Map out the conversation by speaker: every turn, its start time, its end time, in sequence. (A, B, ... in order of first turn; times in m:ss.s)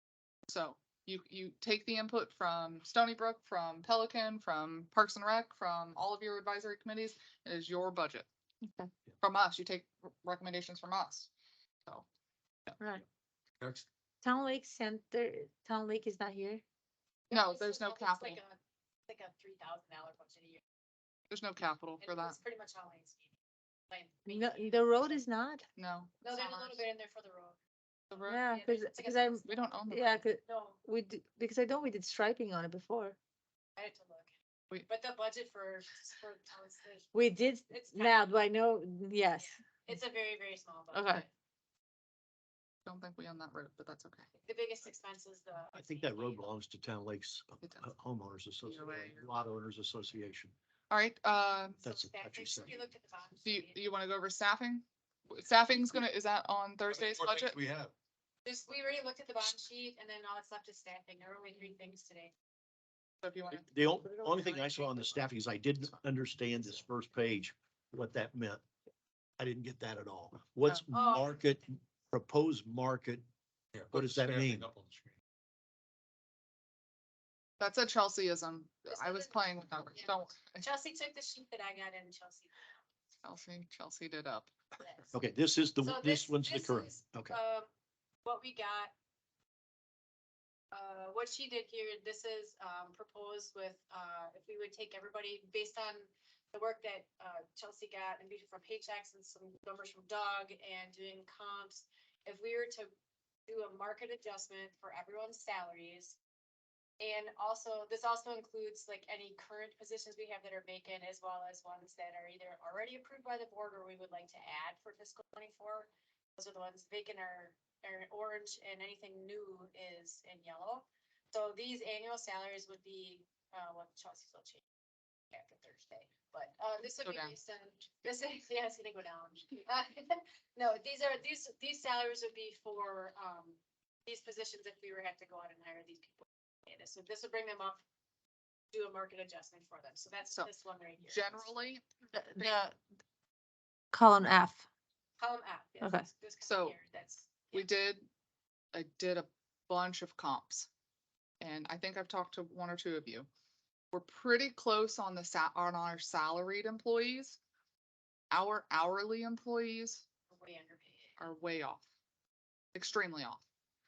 0:00.5-0:08.3 A
0:08.6-0:08.9 B
0:09.2-0:11.3 A
0:12.8-0:13.0 B
0:13.6-0:13.9 C
0:14.2-0:16.6 B
0:17.3-0:20.6 D
0:17.3-0:18.4 A
0:21.3-0:22.4 A
0:22.0-0:23.3 D
0:23.9-0:25.2 D
0:24.3-0:25.7 B
0:25.8-0:26.8 A
0:26.2-0:27.6 D
0:28.1-0:28.4 A
0:28.3-0:33.2 B
0:28.4-0:29.8 D
0:29.4-0:30.2 A
0:30.4-0:30.8 D
0:33.8-0:34.3 D
0:34.9-0:38.4 D
0:37.1-0:39.6 B
0:39.4-0:41.3 D
0:40.9-0:41.3 B
0:42.9-0:44.3 A
0:44.4-0:46.5 D
0:45.8-0:50.5 E
0:48.6-0:49.3 A
0:50.9-0:51.8 A
0:51.8-0:52.9 E
0:51.8-0:53.8 D
0:53.4-0:57.6 A
0:56.9-0:57.9 C
0:58.4-1:02.3 D
1:03.2-1:03.7 A
1:03.5-1:08.6 E
1:09.4-1:13.2 E
1:10.9-1:11.6 D
1:13.7-1:15.2 C
1:13.9-1:14.7 E
1:17.6-1:20.6 A
1:18.9-1:19.4 D
1:20.0-1:22.5 D
1:23.2-1:24.5 A
1:25.1-1:27.4 E
1:25.8-1:27.7 D
1:28.2-1:28.9 D
1:30.7-1:42.9 D
1:43.5-1:46.2 D
1:47.0-2:04.6 D
2:05.3-2:17.8 D
2:07.0-2:07.4 A
2:18.7-2:21.5 D
2:21.1-2:21.8 A
2:22.1-2:22.8 B
2:23.9-2:24.7 B
2:25.2-2:27.7 D
2:25.8-2:26.1 B
2:26.4-2:26.8 A
2:27.5-2:28.1 A
2:28.7-2:30.7 A
2:31.4-2:33.3 A
2:33.9-2:37.4 A
2:38.3-2:40.0 A
2:40.3-2:41.2 D
2:41.2-2:41.8 A
2:42.7-2:43.4 A